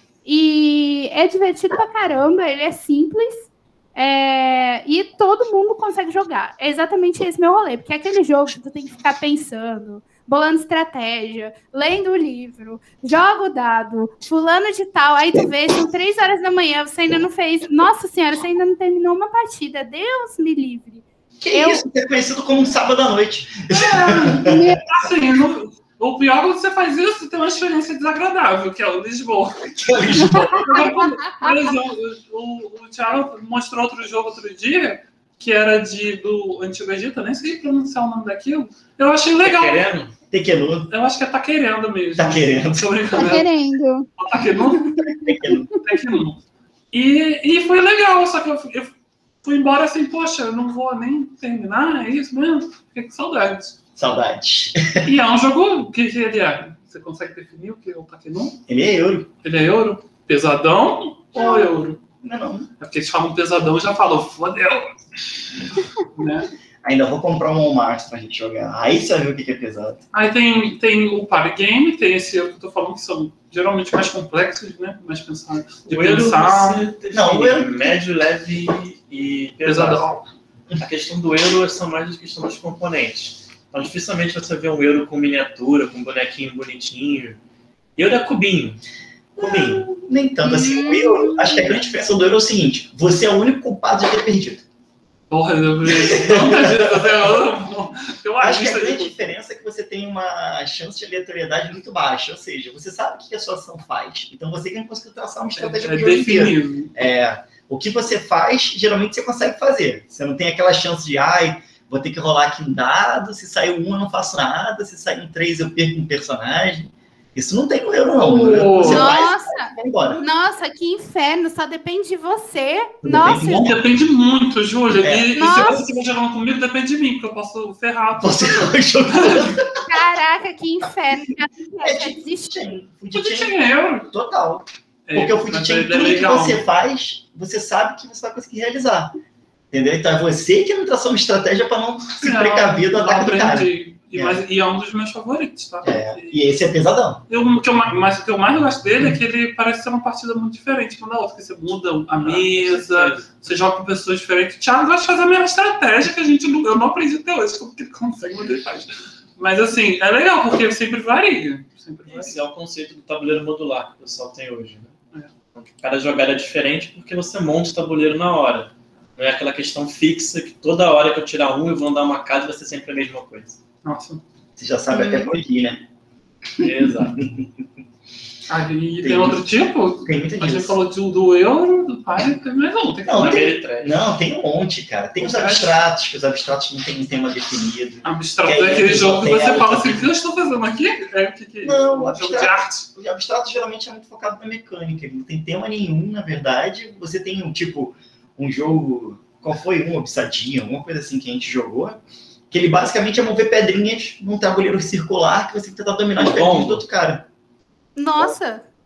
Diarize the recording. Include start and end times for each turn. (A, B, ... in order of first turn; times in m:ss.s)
0:00.2-0:21.8 A
0:21.4-0:24.7 B
0:23.7-0:39.8 C
0:24.4-0:24.8 A
0:29.8-0:30.5 B
0:30.2-0:31.7 A
0:39.4-0:40.1 D
0:40.3-0:40.9 B
0:40.9-0:43.5 C
0:42.2-0:43.2 B
0:43.2-0:44.1 A
0:44.2-0:44.9 C
0:44.7-0:45.8 A
0:45.1-0:45.7 B
0:45.8-0:48.9 C
0:49.4-0:53.8 C
0:54.0-0:55.1 B
0:55.0-0:58.6 C
0:58.7-0:59.3 B
0:59.4-1:02.0 C
1:01.4-1:01.6 A
1:02.2-1:02.7 B
1:02.8-1:04.9 C
1:06.1-1:06.5 C
1:06.8-1:10.0 B
1:10.1-1:16.8 C
1:15.9-1:20.2 D
1:17.1-1:18.0 B
1:19.6-1:20.2 C
1:20.8-1:27.4 D
1:28.0-1:28.8 D
1:29.4-1:34.6 B
1:29.4-1:29.9 D
1:30.4-1:31.8 A
1:35.3-1:39.2 C
1:35.9-1:37.3 B
1:38.4-2:00.2 B
1:45.6-1:46.9 C
1:58.2-1:59.1 C
1:58.8-2:03.7 A
2:03.0-2:03.8 B
2:03.5-2:09.6 C
2:05.0-2:05.3 B
2:05.4-2:05.9 A
2:08.2-2:09.8 B
2:09.9-2:12.5 A
2:11.8-2:19.1 B
2:13.1-2:14.1 C
2:15.1-2:16.6 C
2:19.7-2:24.4 B
2:22.2-2:26.4 C
2:25.8-2:27.2 B
2:27.3-2:42.4 C
2:32.2-2:33.3 D
2:42.1-2:44.9 D
2:45.6-2:53.6 D
2:53.8-2:54.2 C
2:54.6-2:55.8 B
2:54.9-2:55.3 A
2:56.6-2:57.2 D
2:56.6-2:57.4 B
2:58.5-3:03.6 C
2:59.0-2:59.4 B
3:00.0-3:00.8 B
3:03.0-3:10.1 B
3:03.2-3:04.0 D
3:05.2-3:05.8 C
3:08.0-3:12.9 C
3:11.6-3:22.0 B
3:22.5-3:27.3 B
3:26.2-3:26.8 D
3:28.0-3:28.6 A